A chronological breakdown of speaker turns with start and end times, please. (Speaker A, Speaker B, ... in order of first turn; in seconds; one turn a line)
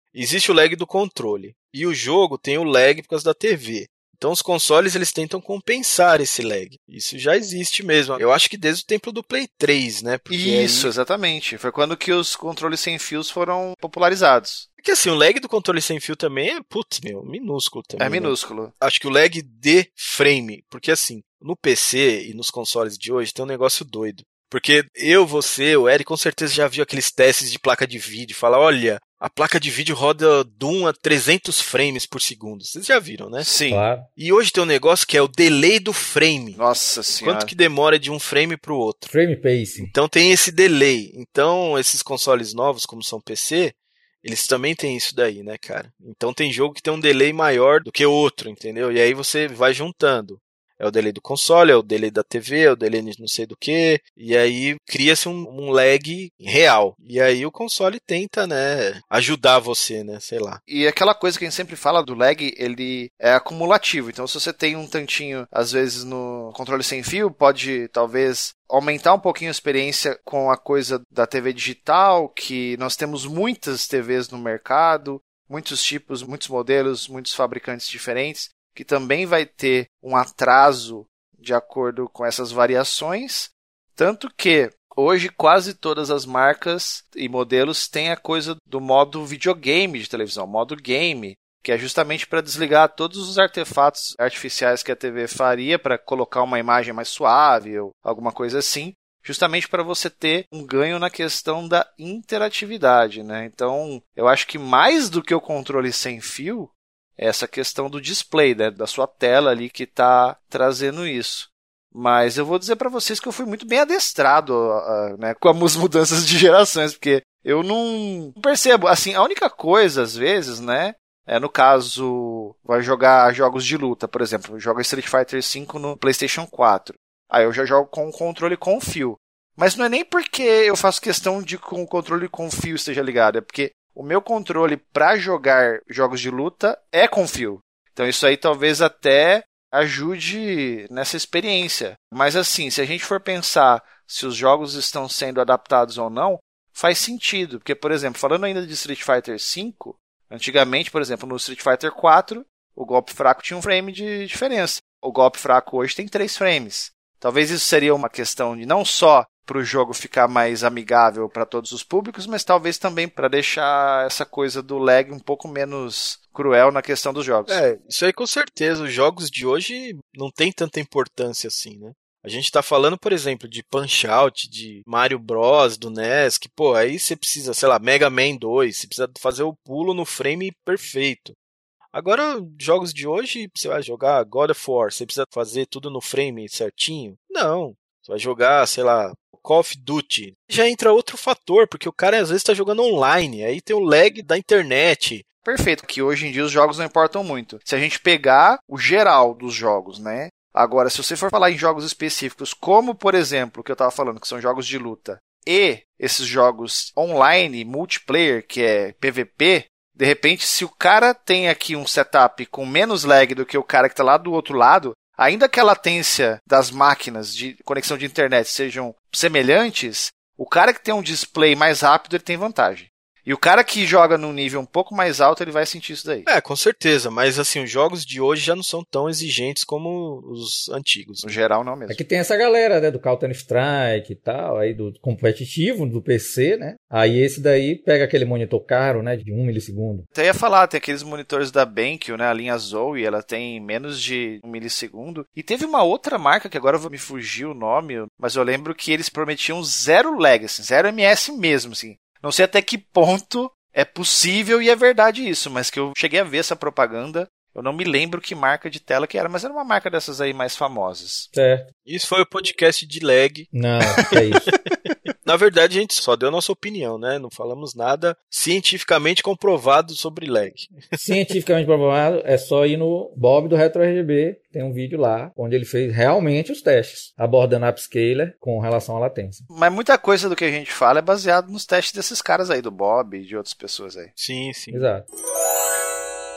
Speaker A: 0.1-10.9
Speaker B: 10.3-14.7
Speaker A: 14.8-33.5
Speaker B: 18.0-18.7
Speaker B: 33.4-33.8
Speaker C: 33.7-34.0
Speaker A: 34.1-36.6
Speaker B: 36.5-37.5
Speaker A: 37.2-39.1
Speaker C: 39.1-39.9
Speaker A: 39.8-60.6
Speaker B: 60.7-167.6
Speaker A: 167.5-181.3
Speaker A: 181.9-195.2
Speaker B: 195.4-226.3
Speaker A: 226.3-231.3
Speaker B: 231.2-232.0
Speaker C: 231.9-240.1
Speaker B: 240.1-261.3
Speaker C: 261.3-261.7
Speaker A: 261.9-264.5
Speaker C: 263.5-264.5
Speaker A: 265.2-271.3
Speaker C: 271.0-279.4
Speaker B: 279.5-284.1
Speaker A: 284.2-284.9
Speaker C: 284.7-285.0